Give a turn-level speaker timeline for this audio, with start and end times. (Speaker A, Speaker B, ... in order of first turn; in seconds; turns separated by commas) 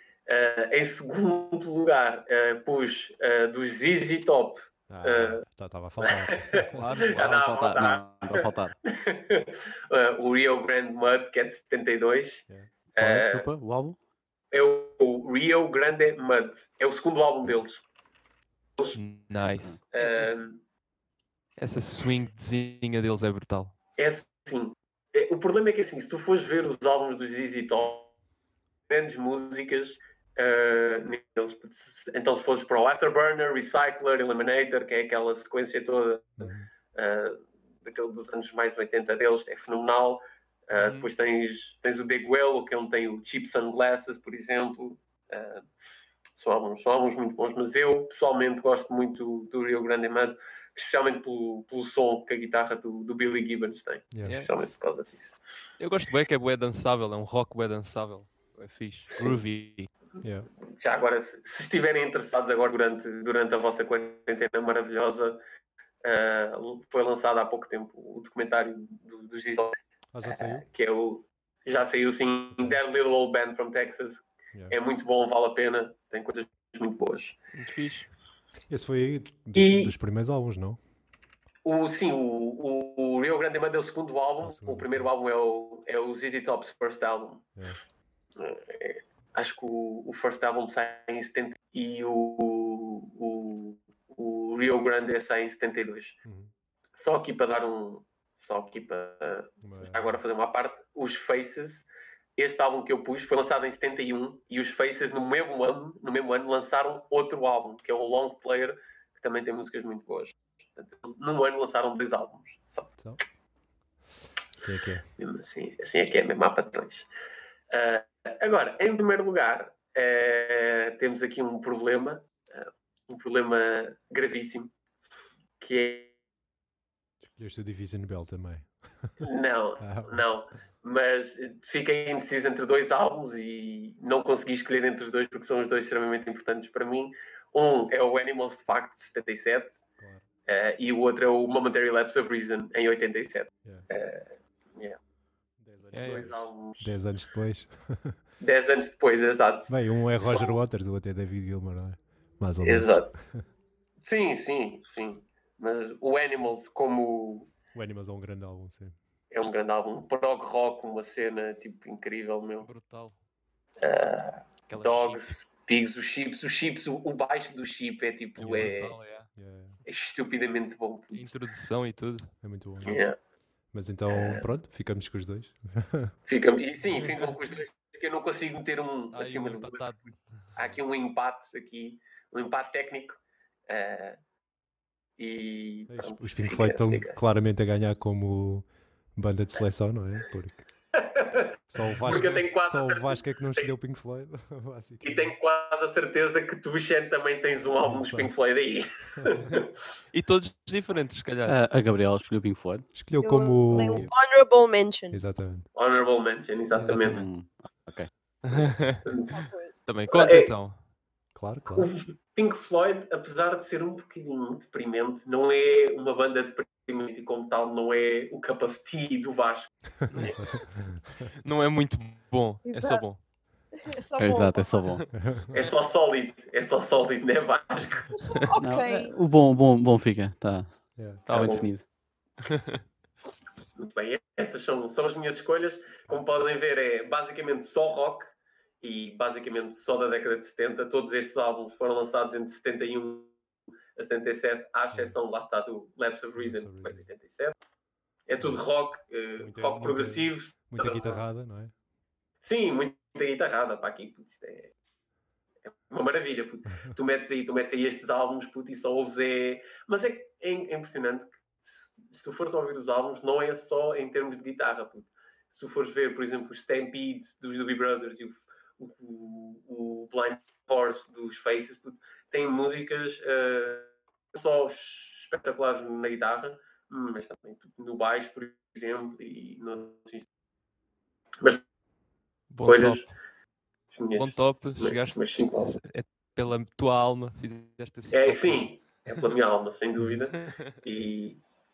Speaker A: 0.3-5.4, Speaker B: 4.9-7.0, Speaker A: 6.1-13.5, Speaker C: 6.7-7.2, Speaker D: 7.0-8.8, Speaker D: 13.0-14.0, Speaker A: 14.5-17.8, Speaker C: 18.9-20.4, Speaker A: 19.9-20.6, Speaker C: 21.6-23.7, Speaker A: 24.0-28.1, Speaker A: 28.9-45.6, Speaker B: 36.4-36.7, Speaker C: 40.7-41.1, Speaker A: 46.4-55.4, Speaker C: 54.2-54.5, Speaker C: 55.8-59.9, Speaker A: 59.1-59.4, Speaker B: 60.2-60.5, Speaker A: 60.8-65.4, Speaker A: 66.0-77.3, Speaker B: 70.1-70.7, Speaker B: 72.5-72.8, Speaker C: 77.5-78.1, Speaker B: 78.7-80.8, Speaker A: 79.5-79.9, Speaker A: 81.6-87.5, Speaker B: 84.4-85.1, Speaker A: 88.4-96.2, Speaker B: 96.2-96.5, Speaker A: 97.0-112.9, Speaker B: 99.6-100.2, Speaker B: 114.5-115.0, Speaker A: 115.2-117.1, Speaker A: 117.7-124.7, Speaker A: 125.6-126.2, Speaker B: 127.2-129.2, Speaker A: 129.2-139.8, Speaker B: 129.8-130.2, Speaker A: 140.4-145.0, Speaker B: 145.6-148.2, Speaker C: 145.9-146.3, Speaker A: 146.1-146.8, Speaker A: 148.4-150.6, Speaker B: 149.7-153.4, Speaker A: 152.6-153.1, Speaker A: 154.0-157.5, Speaker B: 157.7-158.9, Speaker A: 159.3-162.7, Speaker C: 162.6-163.1, Speaker A: 163.8-168.9, Speaker C: 164.7-165.3, Speaker C: 168.4-169.3, Speaker B: 168.4-168.7, Speaker B: 169.3-169.8, Speaker A: 169.8-171.3, Speaker C: 171.1-172.3, Speaker B: 172.4-173.0, Speaker A: 172.8-173.2, Speaker B: 173.7-176.2, Speaker A: 174.1-174.5, Speaker A: 176.3-179.8, Speaker C: 179.1-180.2, Speaker A: 180.6-184.2, Speaker A: 185.2-187.2, Speaker B: 185.9-190.7, Speaker A: 190.9-193.7, Speaker B: 191.7-195.3, Speaker C: 192.1-192.5, Speaker A: 195.0-199.7, Speaker B: 197.8-198.3, Speaker C: 199.5-201.6, Speaker D: 201.4-202.9, Speaker B: 202.9-204.1, Speaker E: 203.2-205.2, Speaker D: 203.7-204.1, Speaker B: 205.1-205.7, Speaker A: 205.7-207.2, Speaker B: 206.7-207.2, Speaker D: 206.8-208.1, Speaker C: 208.4-209.1, Speaker E: 209.3-209.7, Speaker C: 209.8-210.8, Speaker A: 210.1-210.5, Speaker B: 211.3-211.9, Speaker A: 211.8-219.7, Speaker B: 220.0-221.3, Speaker C: 220.1-220.6, Speaker C: 221.4-223.2, Speaker E: 222.6-223.1, Speaker E: 223.8-225.0, Speaker D: 224.2-225.0, Speaker B: 225.1-225.6, Speaker A: 225.5-228.1, Speaker E: 228.1-229.1, Speaker D: 228.6-231.8, Speaker B: 230.9-231.2, Speaker C: 231.3-231.6, Speaker A: 231.3-231.6, Speaker C: 232.4-232.8, Speaker A: 233.8-243.3, Speaker A: 243.9-247.6, Speaker B: 244.9-245.2, Speaker B: 246.4-247.1, Speaker A: 248.3-251.2, Speaker B: 249.4-251.7, Speaker A: 252.4-254.7, Speaker A: 255.9-280.3, Speaker C: 282.5-283.1, Speaker A: 282.6-283.0, Speaker A: 283.9-285.7, Speaker C: 284.1-288.7, Speaker A: 288.1-291.4